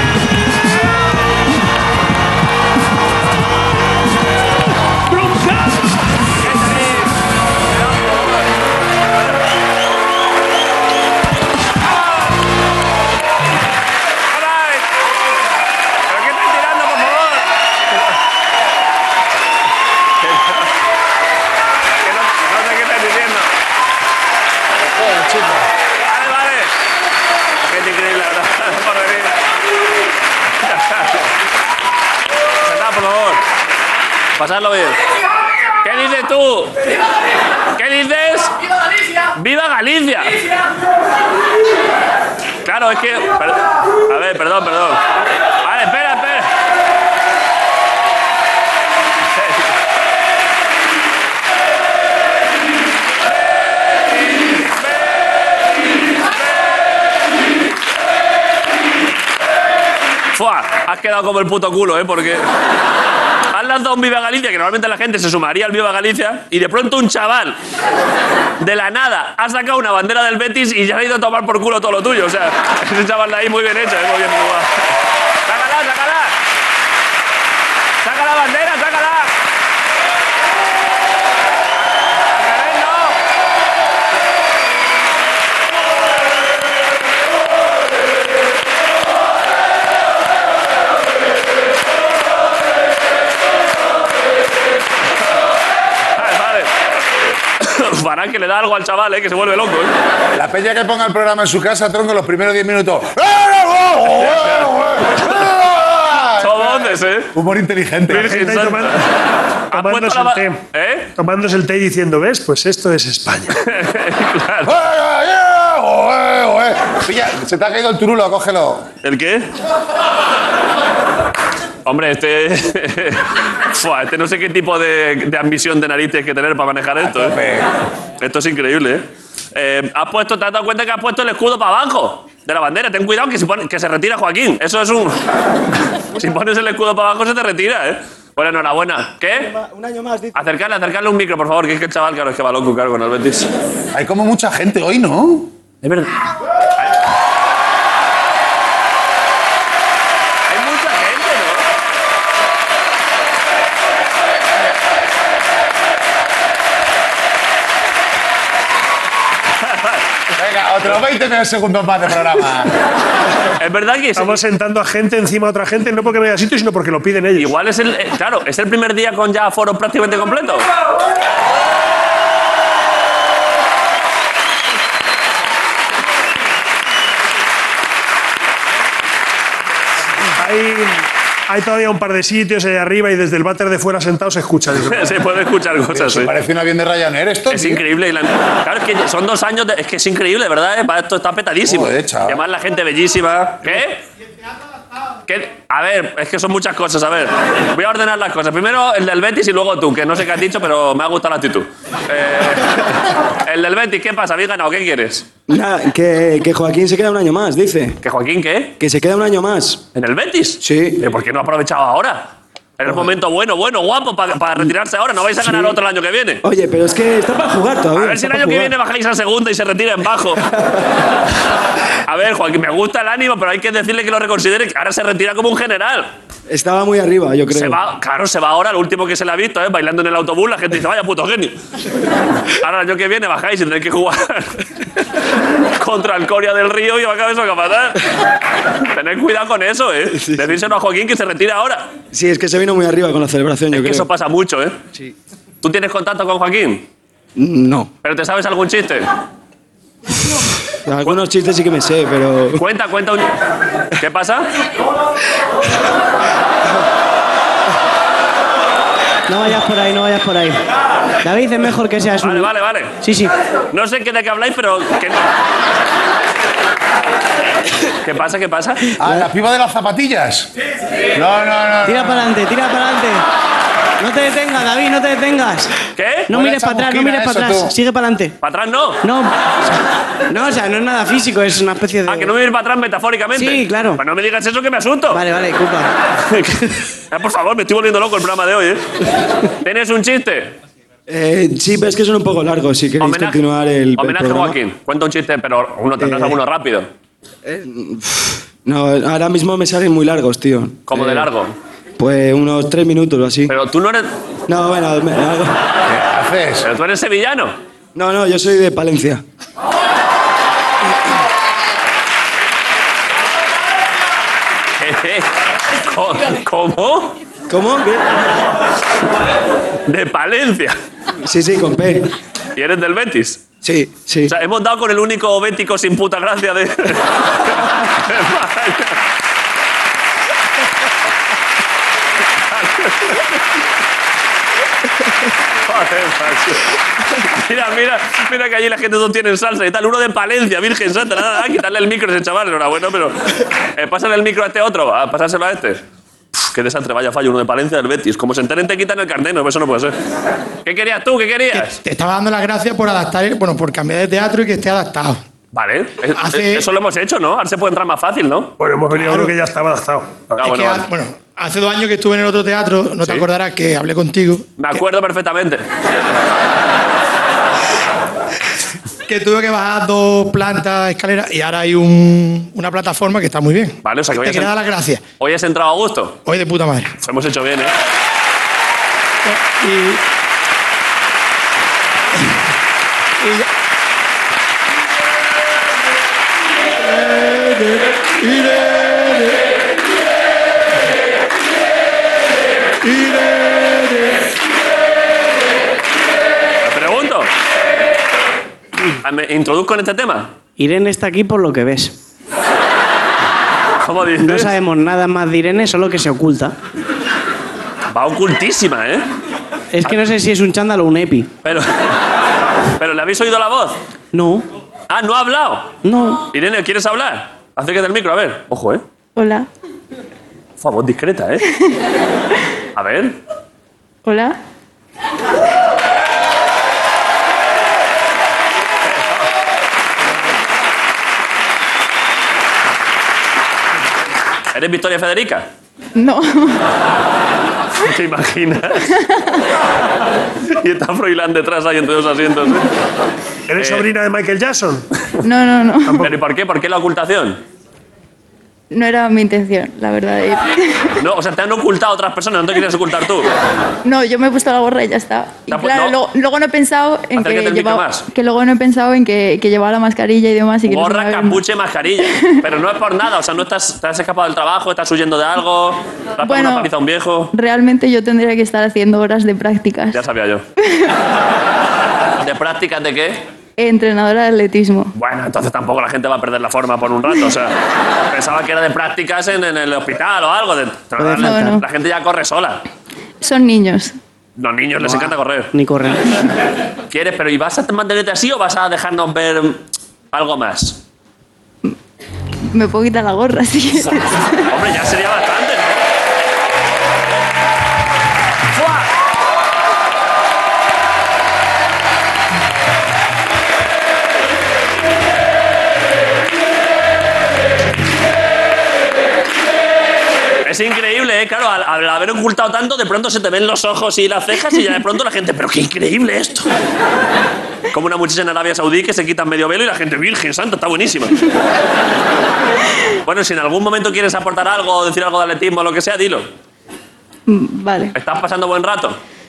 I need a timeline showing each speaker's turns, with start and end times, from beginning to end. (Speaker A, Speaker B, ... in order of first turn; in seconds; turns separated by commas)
Speaker A: 5.1-6.1, Speaker B: 6.4-8.5, Speaker B: 14.3-14.9, Speaker B: 16.1-17.5, Speaker B: 20.2-20.7, Speaker B: 22.0-23.5, Speaker C: 25.0-25.6, Speaker B: 26.0-26.7, Speaker B: 27.6-29.3, Speaker B: 30.6-31.3, Speaker B: 32.6-33.4, Speaker B: 34.4-35.0, Speaker B: 35.8-36.8, Speaker B: 37.8-38.5, Speaker B: 39.4-40.4, Speaker B: 42.6-46.5, Speaker B: 49.3-49.7, Speaker B: 60.3-62.5, Speaker B: 63.5-67.6, Speaker B: 68.6-74.9, Speaker B: 75.5-76.4, Speaker B: 78.0-79.3, Speaker B: 82.3-83.2, Speaker B: 96.2-96.7, Speaker B: 97.6-99.9, Speaker C: 100.3-108.4, Speaker B: 104.3-104.7, Speaker B: 106.4-107.3, Speaker B: 108.1-109.1, Speaker A: 108.1-109.0, Speaker A: 109.7-110.6, Speaker B: 109.7-111.1, Speaker A: 111.2-113.5, Speaker B: 113.6-114.8, Speaker C: 114.7-118.9, Speaker B: 119.0-119.5, Speaker B: 121.9-127.4, Speaker C: 127.0-127.7, Speaker B: 128.2-135.2, Speaker B: 136.1-139.5, Speaker D: 139.6-140.3, Speaker B: 140.3-143.5, Speaker C: 143.9-145.5, Speaker B: 145.8-146.1, Speaker B: 150.5-151.6, Speaker B: 159.6-160.0, Speaker C: 160.3-162.7, Speaker B: 163.6-164.4, Speaker A: 164.2-167.5, Speaker B: 167.4-170.7, Speaker A: 180.4-185.2, Speaker B: 184.9-186.3, Speaker C: 185.9-187.8, Speaker B: 187.5-194.0, Speaker C: 191.7-192.4, Speaker B: 195.3-205.3, Speaker D: 205.5-208.0, Speaker B: 208.0-208.8, Speaker D: 208.8-209.8, Speaker B: 209.9-216.4, Speaker D: 210.6-211.0, Speaker D: 215.4-215.8, Speaker D: 216.4-218.7, Speaker B: 218.0-220.4, Speaker B: 222.1-226.1, Speaker D: 226.5-227.8, Speaker B: 227.5-231.6, Speaker B: 232.6-235.0, Speaker B: 235.8-238.0, Speaker B: 238.8-241.9, Speaker D: 240.2-240.6, Speaker D: 242.1-244.1, Speaker B: 243.7-244.8, Speaker B: 245.6-246.9, Speaker D: 247.4-247.9, Speaker B: 248.0-249.1, Speaker D: 250.9-252.6, Speaker B: 252.6-253.3, Speaker B: 254.0-254.5, Speaker E: 259.3-260.6, Speaker E: 261.2-263.3, Speaker B: 262.2-262.9, Speaker B: 263.7-265.2, Speaker B: 268.0-268.8, Speaker C: 269.0-270.5, Speaker C: 271.1-272.3, Speaker E: 271.9-273.2, Speaker E: 274.0-275.8, Speaker B: 276.0-276.3, Speaker E: 276.3-278.3, Speaker C: 276.3-277.7, Speaker B: 278.4-279.0, Speaker E: 279.0-279.8, Speaker E: 280.3-282.3, Speaker B: 282.1-285.2, Speaker E: 283.3-284.0, Speaker E: 285.1-285.9, Speaker B: 286.3-288.8, Speaker B: 289.6-290.5, Speaker D: 291.1-294.6, Speaker B: 293.0-293.4, Speaker B: 294.0-296.9, Speaker D: 296.0-296.4, Speaker D: 297.4-301.3, Speaker B: 300.9-301.5, Speaker D: 302.0-303.5, Speaker B: 303.5-304.1, Speaker D: 304.5-305.6, Speaker C: 305.9-306.7, Speaker B: 306.6-307.6, Speaker D: 307.9-309.2, Speaker B: 314.8-317.1, Speaker D: 317.5-318.1, Speaker B: 319.9-320.8, Speaker D: 321.2-322.1, Speaker B: 322.6-323.4, Speaker D: 323.6-324.3, Speaker B: 324.3-329.0, Speaker B: 332.5-333.3, Speaker B: 335.7-345.8, Speaker B: 346.4-349.9, Speaker B: 350.6-351.8, Speaker F: 351.5-355.2, Speaker B: 355.5-358.5, Speaker F: 356.2-356.7, Speaker A: 358.6-360.3, Speaker F: 359.0-359.3, Speaker B: 360.4-360.9, Speaker F: 360.4-364.7, Speaker B: 363.0-363.3, Speaker B: 364.6-365.7, Speaker F: 369.1-375.0, Speaker B: 373.8-374.5, Speaker B: 375.2-376.2, Speaker F: 376.3-376.9, Speaker B: 377.0-377.7, Speaker F: 379.2-380.0, Speaker F: 383.2-383.5, Speaker B: 396.6-397.3, Speaker B: 399.0-400.3, Speaker E: 400.6-401.9, Speaker B: 403.8-404.5, Speaker E: 404.2-406.5, Speaker B: 407.9-409.0, Speaker E: 409.7-411.3, Speaker B: 411.4-411.9, Speaker B: 412.8-413.8, Speaker E: 414.1-414.4, Speaker B: 414.9-415.8, Speaker E: 415.8-416.2, Speaker B: 416.3-418.8, Speaker G: 419.2-419.5, Speaker B: 420.6-421.4, Speaker B: 422.8-423.2, Speaker G: 424.1-424.4, Speaker B: 428.9-429.3, Speaker B: 434.5-435.5, Speaker G: 436.0-436.6, Speaker B: 437.8-438.9, Speaker G: 438.9-439.4, Speaker B: 440.5-442.7, Speaker A: 443.5-444.9, Speaker B: 443.6-443.9, Speaker G: 445.2-446.1, Speaker B: 446.0-447.4, Speaker G: 448.7-450.9, Speaker B: 451.0-453.3, Speaker G: 453.9-461.4, Speaker B: 455.5-456.0, Speaker B: 457.2-458.1, Speaker B: 460.7-467.3, Speaker G: 462.0-462.4, Speaker G: 466.2-466.7, Speaker G: 467.3-470.0, Speaker B: 469.9-470.4, Speaker G: 470.6-470.9, Speaker B: 472.2-473.2, Speaker G: 473.6-474.9, Speaker B: 474.9-477.5, Speaker B: 478.1-482.6, Speaker E: 481.0-481.6, Speaker G: 481.1-481.6, Speaker G: 483.2-483.9, Speaker B: 484.4-485.5, Speaker E: 484.8-486.0, Speaker B: 486.9-490.8, Speaker G: 492.5-494.4, Speaker B: 494.5-495.8, Speaker B: 498.5-498.9, Speaker B: 510.4-516.5, Speaker B: 517.7-521.2, Speaker B: 523.0-526.3, Speaker G: 527.3-528.0, Speaker B: 528.0-529.0